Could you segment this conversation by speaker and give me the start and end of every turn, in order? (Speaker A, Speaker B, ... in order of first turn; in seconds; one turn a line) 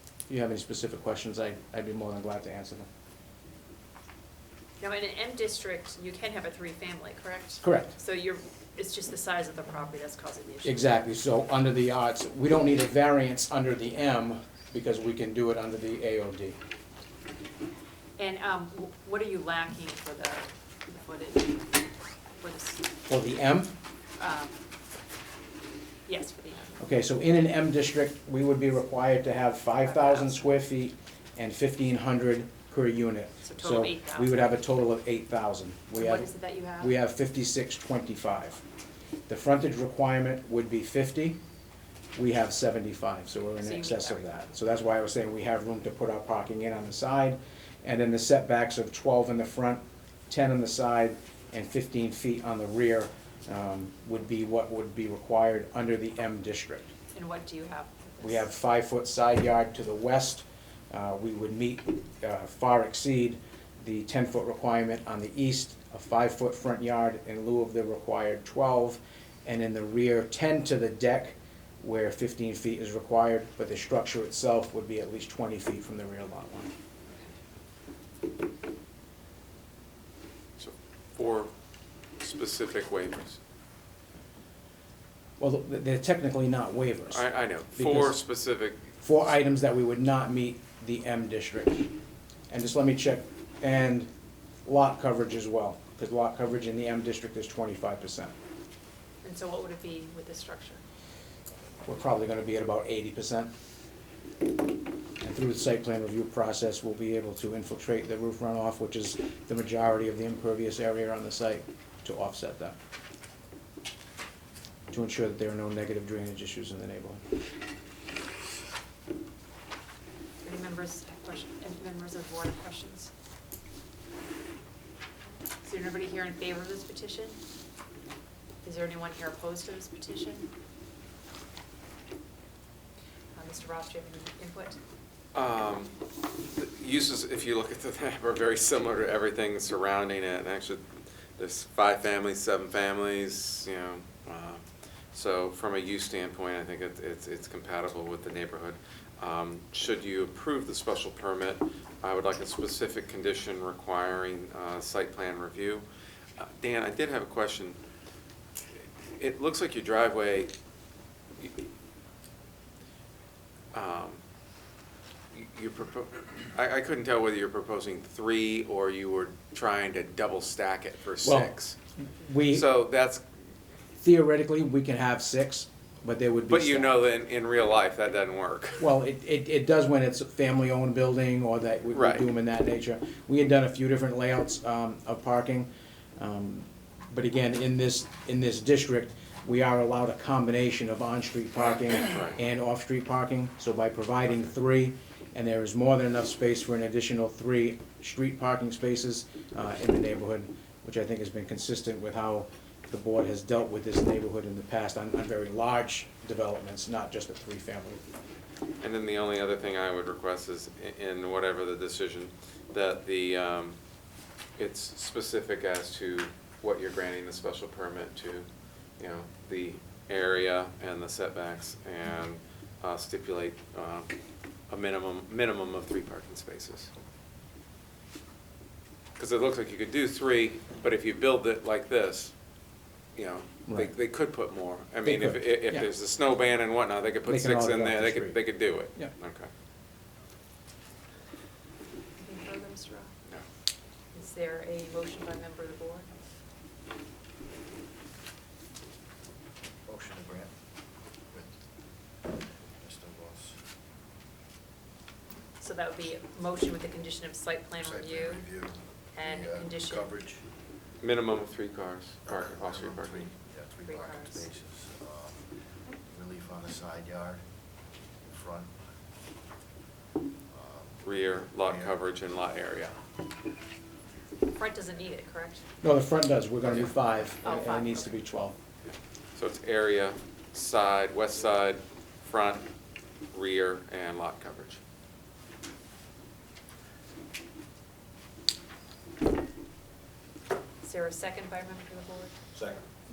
Speaker A: 0.3-2.9
Speaker B: 4.8-10.8
Speaker A: 7.6-8.0
Speaker A: 10.6-16.6
Speaker B: 18.2-22.9
Speaker A: 23.1-23.7
Speaker B: 24.2-24.6
Speaker B: 26.1-26.7
Speaker A: 26.8-38.6
Speaker B: 29.8-30.4
Speaker B: 33.4-34.5
Speaker B: 36.0-36.9
Speaker A: 39.3-41.4
Speaker A: 42.1-56.9
Speaker B: 43.6-44.4
Speaker B: 57.1-58.4
Speaker A: 58.2-76.7
Speaker C: 80.6-81.5
Speaker C: 82.2-83.4
Speaker A: 85.4-88.2
Speaker C: 87.1-88.9
Speaker A: 89.0-91.9
Speaker A: 92.5-94.1
Speaker A: 94.6-98.3
Speaker B: 99.2-100.8
Speaker A: 101.8-103.5
Speaker A: 105.2-112.8
Speaker A: 114.9-117.2
Speaker B: 120.4-123.1
Speaker B: 125.6-127.4
Speaker B: 128.6-130.5
Speaker B: 133.3-134.8
Speaker C: 135.3-144.6
Speaker C: 145.1-155.8
Speaker C: 156.4-157.8
Speaker C: 159.1-160.5
Speaker C: 161.4-161.6
Speaker C: 163.7-164.2
Speaker C: 165.3-171.8
Speaker A: 171.2-171.5
Speaker A: 172.0-172.7
Speaker C: 172.5-173.2
Speaker A: 174.0-176.9
Speaker C: 176.5-178.8
Speaker A: 178.8-208.0
Speaker C: 181.9-182.2
Speaker C: 192.1-192.4
Speaker C: 208.8-213.8
Speaker C: 214.6-218.5
Speaker C: 219.0-224.1
Speaker C: 224.7-226.9
Speaker C: 229.2-232.3
Speaker C: 233.1-239.5
Speaker A: 235.0-235.9
Speaker A: 237.2-238.4
Speaker B: 242.2-243.1
Speaker B: 244.1-246.1
Speaker D: 249.8-250.5
Speaker D: 251.3-251.6
Speaker D: 252.2-253.6
Speaker B: 255.6-258.5
Speaker D: 257.8-260.4
Speaker B: 259.1-260.1
Speaker C: 261.0-263.3
Speaker D: 262.3-267.4
Speaker B: 263.9-264.5
Speaker D: 268.2-268.8
Speaker D: 270.5-272.0
Speaker C: 271.0-273.0
Speaker B: 274.5-275.6
Speaker A: 275.8-278.6
Speaker B: 277.4-278.1
Speaker C: 279.3-282.7
Speaker C: 283.3-284.8
Speaker B: 290.8-292.3